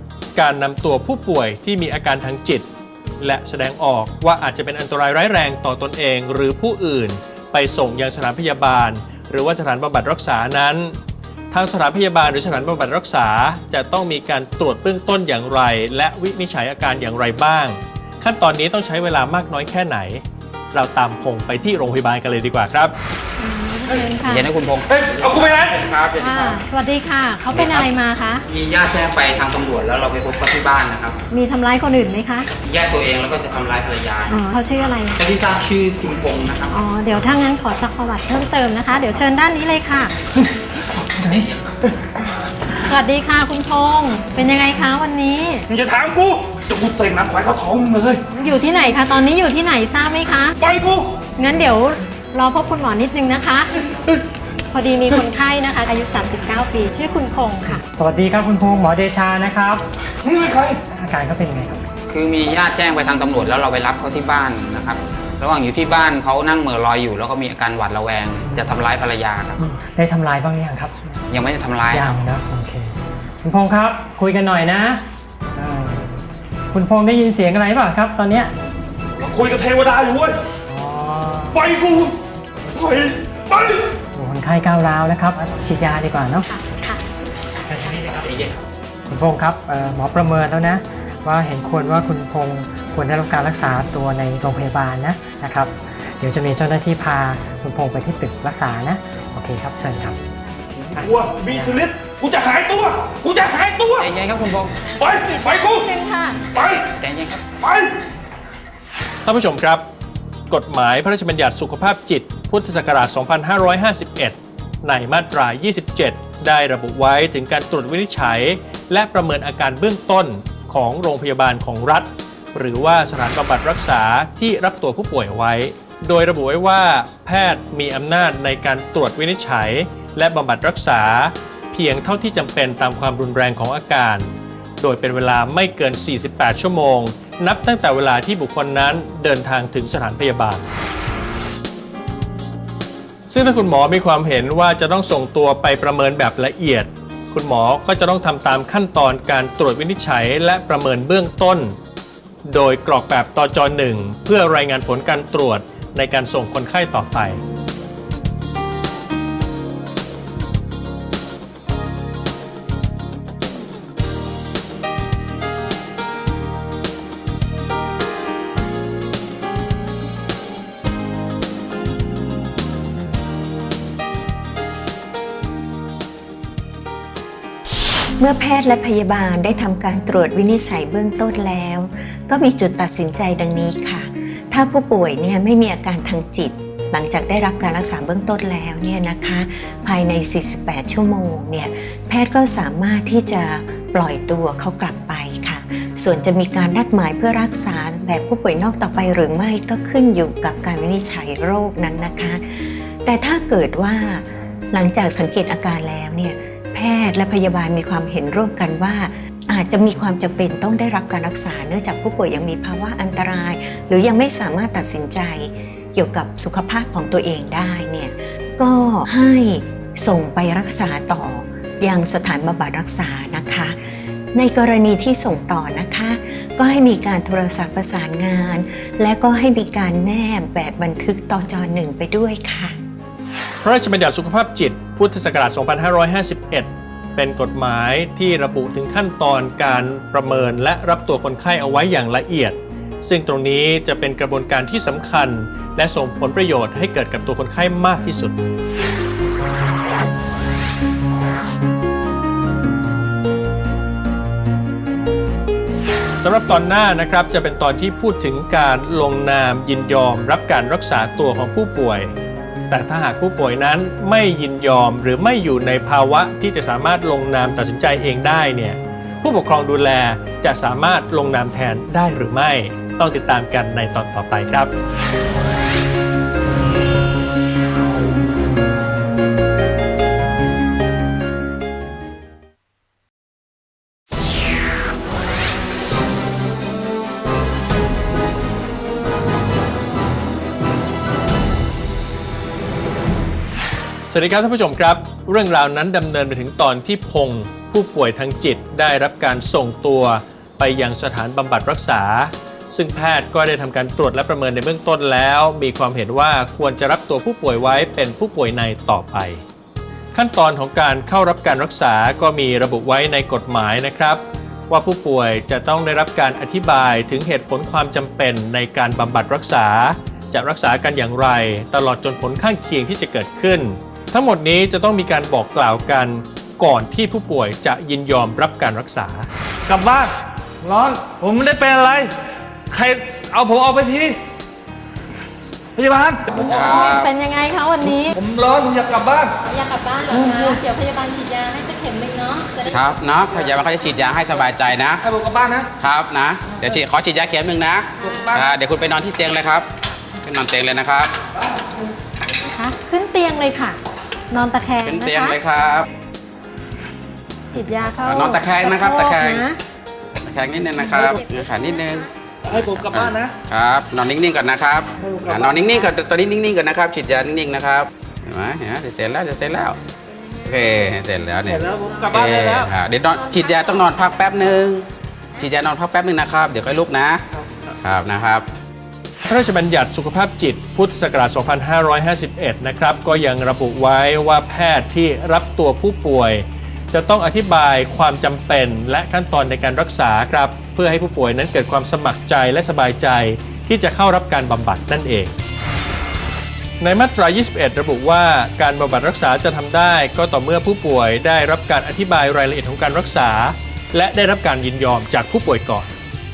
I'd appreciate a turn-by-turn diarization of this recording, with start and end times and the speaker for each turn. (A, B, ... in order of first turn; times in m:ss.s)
0:00.4-0:02.6 A
0:03.2-0:11.0 A
0:11.5-0:22.9 A
0:23.4-0:24.5 B
0:24.2-0:26.6 C
0:24.9-0:25.9 D
0:26.2-0:28.4 B
0:27.5-0:27.9 C
0:28.5-0:31.2 C
0:31.3-0:32.5 B
0:32.6-0:34.4 C
0:34.3-0:35.2 B
0:35.2-0:36.7 C
0:36.7-0:40.1 B
0:41.0-0:41.9 D
0:42.8-0:45.6 B
0:45.7-0:48.2 D
0:48.3-0:50.6 B
0:50.6-0:51.2 D
0:51.4-0:53.7 B
0:54.7-0:57.8 B
0:57.7-0:59.8 E
1:00.2-1:00.8 D
1:00.9-1:01.8 E
1:02.1-1:09.6 C
1:08.4-1:08.8 E
1:09.6-1:11.2 E
1:11.3-1:12.2 C
1:11.9-1:15.0 E
1:15.6-1:16.2 E
1:16.7-1:18.5 E
1:19.1-1:20.4 D
1:20.7-1:21.6 E
1:21.5-1:22.2 D
1:22.7-1:23.9 D
1:24.1-1:26.5 E
1:26.5-1:27.0 B
1:27.7-1:28.3 E
1:28.0-1:28.6 C
1:29.1-1:40.2 E
1:40.8-1:44.2 D
1:41.0-1:41.8 E
1:44.0-1:44.8 C
1:44.9-1:47.0 D
1:45.0-1:46.4 B
1:47.0-1:47.5 C
1:47.5-1:47.9 D
1:49.2-1:49.8 A
1:50.5-2:14.3 A
2:14.8-2:20.7 A
2:23.3-2:31.8 A
2:32.5-2:37.4 A
2:58.2-3:52.8 F
3:53.6-4:08.4 A
4:16.2-4:22.1 A
4:22.7-4:34.7 A
4:54.1-5:09.4 A
5:10.1-5:29.3 A
5:29.7-5:30.1 D
5:30.6-5:32.1 D
5:32.7-5:34.1 D
5:35.8-5:36.9 D
5:36.4-5:37.1 C
5:36.4-5:38.2 B
5:37.9-5:39.4 D
5:39.4-5:43.9 B
5:40.1-5:40.6 D
5:42.6-5:45.1 C
5:45.0-5:45.7 D
5:45.8-5:49.7 C
5:48.0-5:48.3 B
5:48.0-5:48.5 D
5:50.2-5:51.2 C
5:52.4-5:53.8 B
5:54.3-5:55.4 B
5:54.8-5:55.9 C
5:57.5-5:59.6 B
5:58.1-5:59.4 C
6:00.2-6:09.8 C
6:00.8-6:01.4 B
6:02.5-6:03.3 D
6:05.1-6:05.6 D
6:10.4-6:14.9 C
6:11.7-6:12.6 D
6:15.4-6:17.2 C
6:17.8-6:18.5 C
6:19.3-6:35.4 A
6:36.8-6:45.9 A